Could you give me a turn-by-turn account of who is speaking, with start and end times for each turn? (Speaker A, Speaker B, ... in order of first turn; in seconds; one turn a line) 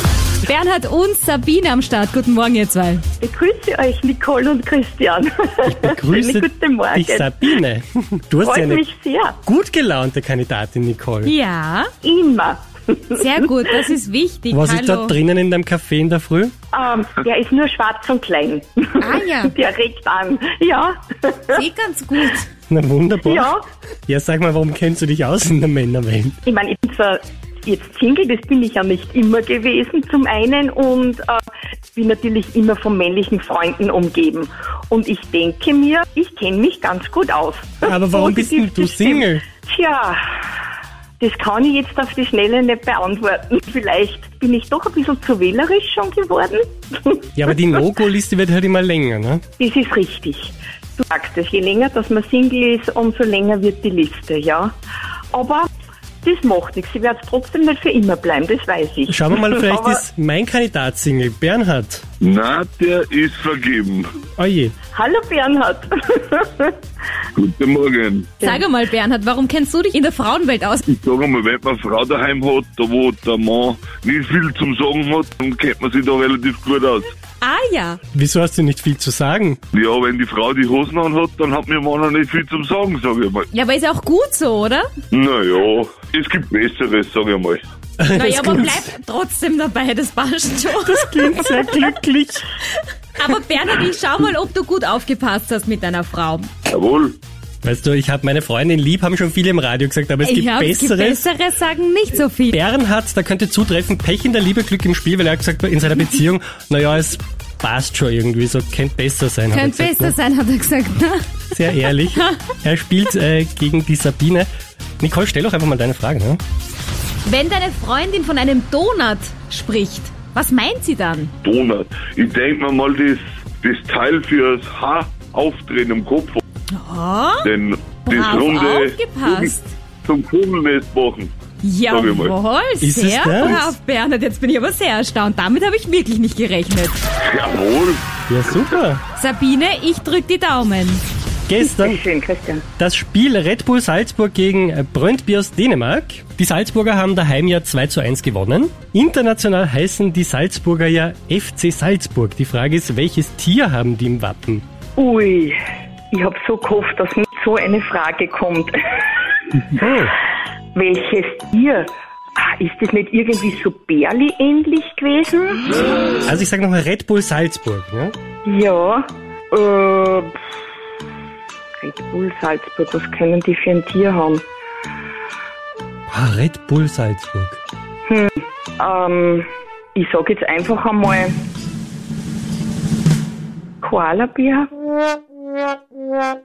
Speaker A: 0.4-3.0
Speaker B: 3.2-7.5
Speaker C: 5.6-8.8
Speaker B: 8.4-9.4
Speaker C: 9.4-11.3
Speaker A: 11.2-11.9
Speaker B: 12.0-13.5
Speaker A: 13.2-15.2
Speaker C: 14.5-16.5
Speaker B: 16.7-21.6
Speaker A: 19.0-19.5
Speaker A: 21.5-22.5
Speaker C: 22.7-23.5
Speaker B: 23.2-23.6
Speaker C: 24.1-26.4
Speaker B: 26.4-31.4
Speaker B: 31.9-40.2
Speaker C: 37.8-39.5
Speaker B: 41.2-47.3
Speaker C: 47.4-49.4
Speaker B: 49.6-54.7
Speaker B: 55.3-55.6
Speaker B: 56.2-60.0
Speaker C: 59.1-62.0
Speaker D: 62.2-64.1
Speaker C: 64.4-64.7
Speaker B: 64.9-66.8
Speaker D: 67.3-68.4
Speaker A: 68.4-70.8
Speaker D: 70.9-77.1
Speaker A: 77.4-78.0
Speaker C: 78.1-79.6
Speaker D: 79.7-83.5
Speaker A: 83.5-84.9
Speaker D: 85.1-87.6
Speaker C: 88.0-88.9
Speaker A: 88.1-92.0
Speaker C: 90.8-92.5
Speaker A: 92.7-96.5
Speaker D: 96.7-97.2
Speaker C: 97.6-101.3
Speaker A: 100.2-102.6
Speaker C: 102.5-110.2
Speaker A: 109.5-111.5
Speaker C: 111.5-114.5
Speaker C: 115.0-116.4
Speaker A: 117.2-121.3
Speaker D: 121.4-126.4
Speaker A: 126.7-127.5
Speaker D: 127.4-129.5
Speaker A: 128.0-129.7
Speaker D: 130.0-131.3
Speaker A: 131.6-136.9
Speaker D: 131.9-132.3
Speaker C: 132.8-133.7
Speaker D: 137.2-138.0
Speaker C: 138.3-139.0
Speaker A: 139.1-141.0
Speaker C: 141.5-142.0
Speaker B: 141.6-142.6
Speaker C: 142.8-154.6
Speaker B: 155.0-155.6
Speaker B: 156.1-158.7
Speaker C: 159.7-160.2
Speaker B: 160.7-165.7
Speaker C: 166.2-168.1
Speaker B: 168.4-170.4
Speaker B: 171.8-174.4
Speaker C: 176.1-177.6
Speaker B: 178.1-181.3
Speaker B: 183.8-184.7